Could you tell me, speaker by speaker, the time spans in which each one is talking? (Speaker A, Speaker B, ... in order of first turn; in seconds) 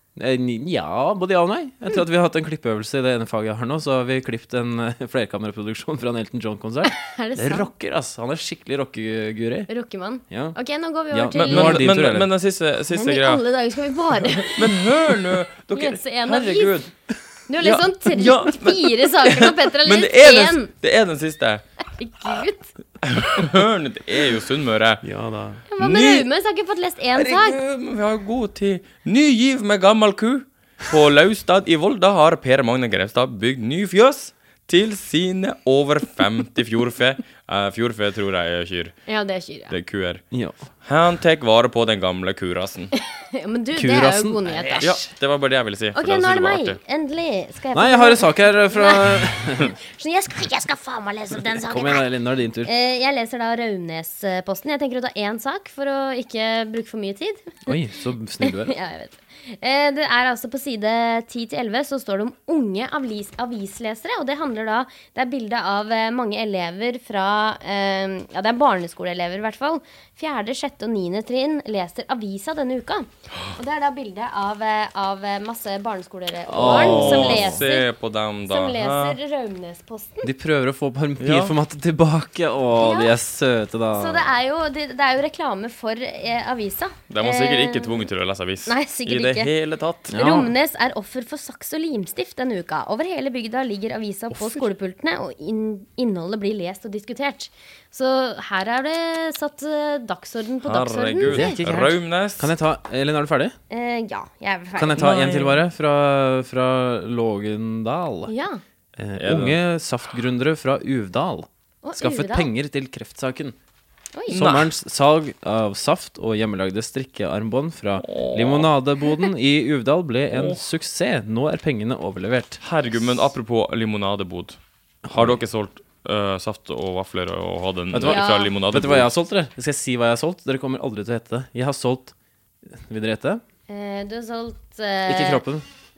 Speaker A: 0.1-9.7, 10.3-10.6, 11.1-12.3, 25.0-25.6, 40.3-40.6, 43.7-45.1, 47.7-49.8, 51.5-52.7, 57.6-58.7, 76.5-77.6, 80.2-84.3, 90.1-90.5, 94.3-94.7, 101.2-103.5, 104.8-108.3, 109.0-113.5, 114.3-122.6, 125.0-125.4, 127.9-132.1, 132.7-133.4, 135.1-135.6
Speaker B: 6.8-7.7, 9.7-11.8, 12.9-15.1, 15.7-16.8, 17.5-20.7, 21.9-22.7, 25.7-27.6, 39.1-39.7, 43.0-44.9, 45.9-52.0, 52.6-57.8, 58.4-77.9, 78.5-80.3, 82.8-83.2, 83.9-88.1, 88.7-89.5, 90.1-101.6, 103.7-105.2, 108.3-108.6, 111.8-112.5, 114.1-114.4, 128.0-128.5, 133.7-135.4
Speaker C: 11.3-13.4, 14.3-16.9, 17.6-21.6, 23.0-25.0, 25.8-26.2, 27.1-39.0, 39.7-40.2, 40.8-42.9, 44.8-46.8, 76.5-79.2, 81.2-81.5, 87.1-90.4, 100.6-102.5, 105.0-105.6, 109.2-109.6, 114.3-114.7, 118.0-118.7, 120.3-120.6, 122.6-124.6, 125.1-129.1